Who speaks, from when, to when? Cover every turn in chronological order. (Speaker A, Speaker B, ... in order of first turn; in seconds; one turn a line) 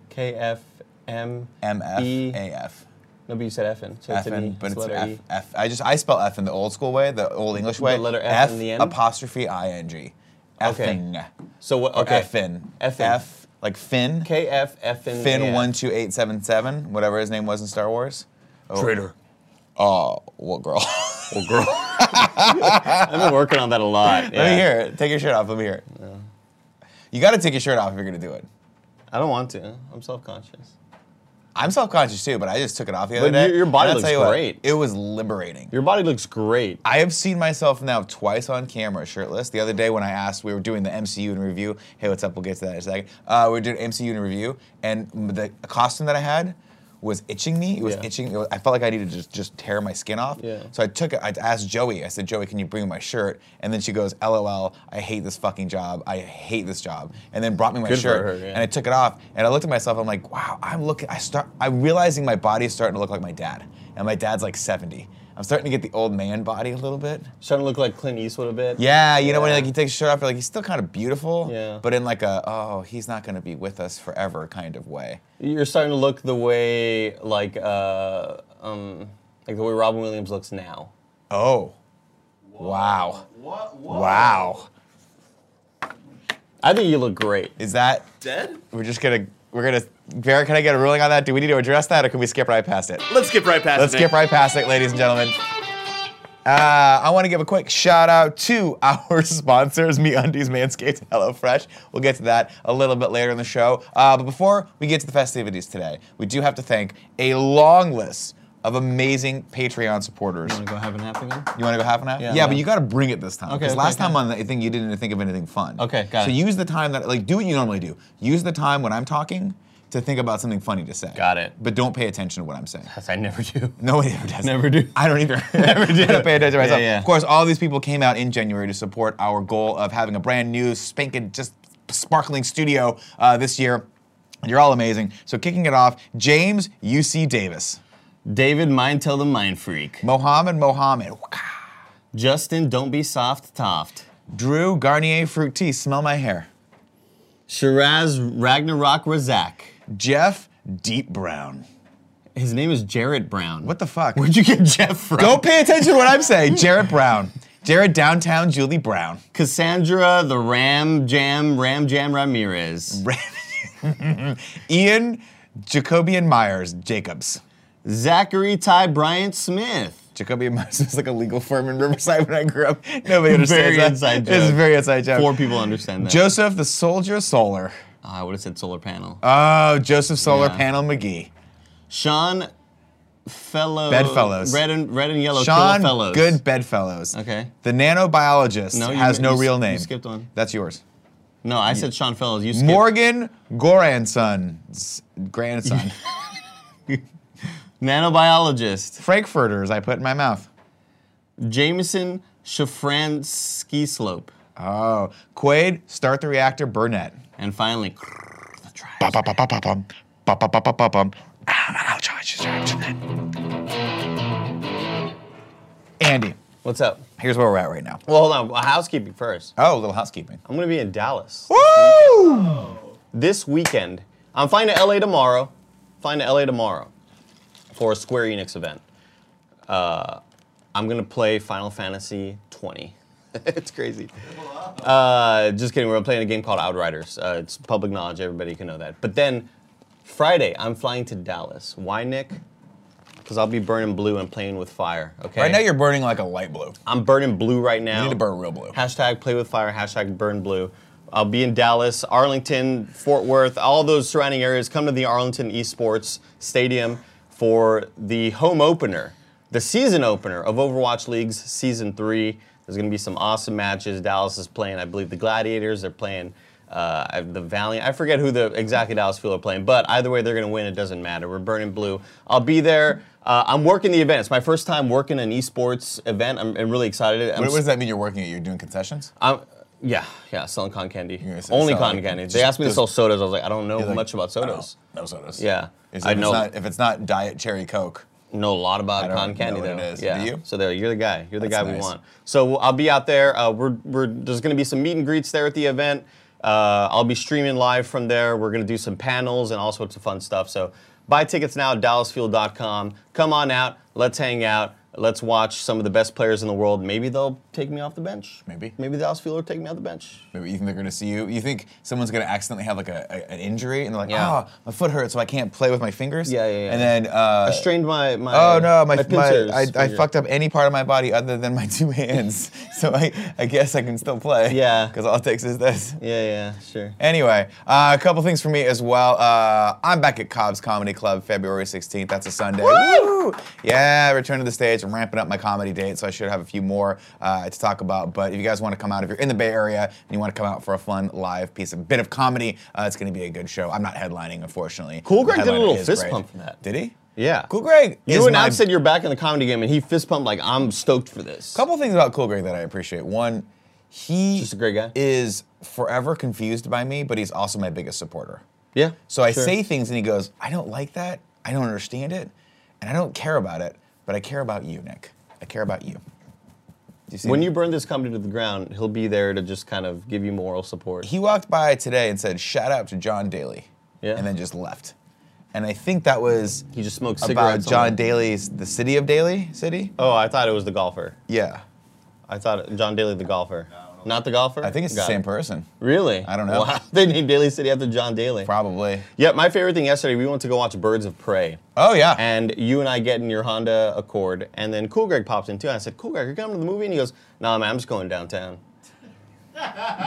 Speaker A: 0.1-2.4
Speaker B: 1.6-2.9
Speaker A: 3.3-5.2
Speaker B: 4.1-11.3
Speaker A: 7.6-9.0
Speaker A: 10.6-11.0
Speaker A: 11.6-13.2
Speaker B: 11.9-14.3
Speaker A: 14.2-15.7
Speaker B: 15.1-19.1
Speaker A: 18.7-19.1
Speaker B: 19.8-23.3
Speaker A: 21.3-24.7
Speaker B: 24.0-25.9
Speaker A: 25.9-26.3
Speaker B: 27.1-28.5
Speaker A: 29.1-30.7
Speaker B: 31.6-35.7
Speaker A: 33.2-34.6
Speaker A: 35.7-36.8
Speaker B: 36.8-67.3
Speaker A: 47.8-48.1
Speaker A: 50.4-50.7
Speaker A: 57.9-58.6
Speaker A: 67.4-69.7
Speaker B: 68.8-75.2
Speaker A: 71.4-71.8
Speaker A: 75.4-80.9
Speaker B: 81.3-81.8
Speaker C: 82.6-84.5
Speaker B: 82.6-83.2
Speaker B: 83.9-84.7
Speaker A: 86.6-87.5
Speaker B: 87.6-88.1
Speaker C: 88.2-88.6
Speaker B: 88.7-93.1
Speaker C: 93.1-94.1
Speaker B: 93.7-95.4
Speaker B: 96.5-110.6
Speaker A: 110.5-111.5
Speaker B: 111.5-122.9
Speaker A: 112.2-112.6
Speaker A: 113.5-114.2
Speaker A: 115.8-116.4
Speaker A: 121.2-121.5
Speaker A: 122.9-123.8
Speaker B: 123.8-133.9
Speaker A: 124.4-127.1
Speaker B: 134.4-137.8
Speaker A: 138.3-140.0
Speaker B: 140.0-141.6
Speaker A: 142.1-144.1
Speaker B: 144.3-146.5
Speaker A: 147.5-149.8
Speaker B: 149.9-151.7
Speaker A: 152.4-155.5
Speaker B: 153.6-154.3
Speaker B: 155.2-159.2
Speaker A: 159.3-163.0
Speaker B: 162.9-167.4
Speaker A: 167.8-170.0
Speaker B: 170.2-177.8
Speaker A: 173.2-176.2
Speaker A: 178.0-179.2
Speaker B: 179.2-181.3
Speaker A: 180.2-180.7
Speaker A: 181.9-182.5
Speaker A: 183.3-186.4
Speaker B: 183.9-184.6
Speaker B: 185.3-190.8
Speaker A: 187.1-187.5
Speaker A: 188.7-190.3
Speaker A: 191.4-192.9
Speaker B: 192.5-196.0
Speaker A: 197.8-199.0
Speaker B: 199.0-200.5
Speaker A: 201.4-204.3
Speaker B: 204.6-207.2
Speaker A: 207.4-209.2
Speaker B: 209.0-213.2
Speaker B: 216.0-216.4
Speaker A: 216.6-217.0
Speaker B: 217.2-218.0
Speaker A: 218.1-219.6
Speaker B: 219.6-220.4
Speaker A: 220.4-226.9
Speaker B: 221.5-222.7
Speaker A: 227.7-228.8
Speaker A: 229.7-230.2
Speaker A: 230.7-239.5
Speaker A: 240.0-242.4
Speaker A: 243.2-245.7
Speaker B: 245.4-246.8
Speaker A: 246.9-248.2
Speaker B: 247.9-248.8
Speaker A: 248.7-277.6
Speaker B: 277.4-279.1
Speaker A: 279.2-284.8
Speaker B: 281.2-282.9
Speaker B: 283.8-288.1
Speaker A: 285.4-286.5
Speaker A: 288.3-310.3
Speaker B: 289.0-290.4
Speaker B: 291.4-291.9
Speaker B: 308.5-308.8
Speaker B: 310.3-317.7
Speaker A: 314.1-314.4
Speaker A: 316.2-320.1
Speaker B: 318.3-326.0
Speaker A: 324.5-324.9
Speaker A: 326.0-327.0
Speaker B: 327.0-347.0
Speaker A: 332.6-333.1
Speaker A: 345.0-346.6
Speaker A: 347.1-347.5
Speaker B: 347.5-348.7
Speaker A: 348.1-351.6
Speaker B: 351.5-358.4
Speaker A: 354.4-354.9
Speaker A: 358.8-359.6
Speaker B: 359.1-366.0
Speaker B: 367.1-367.5
Speaker A: 367.2-371.1
Speaker B: 371.0-374.9
Speaker A: 374.0-374.3
Speaker B: 375.5-376.7
Speaker A: 376.7-378.0
Speaker B: 377.2-379.9
Speaker A: 380.0-381.2
Speaker B: 381.3-381.6
Speaker A: 382.3-385.2
Speaker B: 384.6-385.7
Speaker A: 385.8-388.5
Speaker B: 386.2-386.7
Speaker B: 388.4-389.1
Speaker A: 389.1-391.6
Speaker B: 391.8-392.3
Speaker A: 392.2-398.6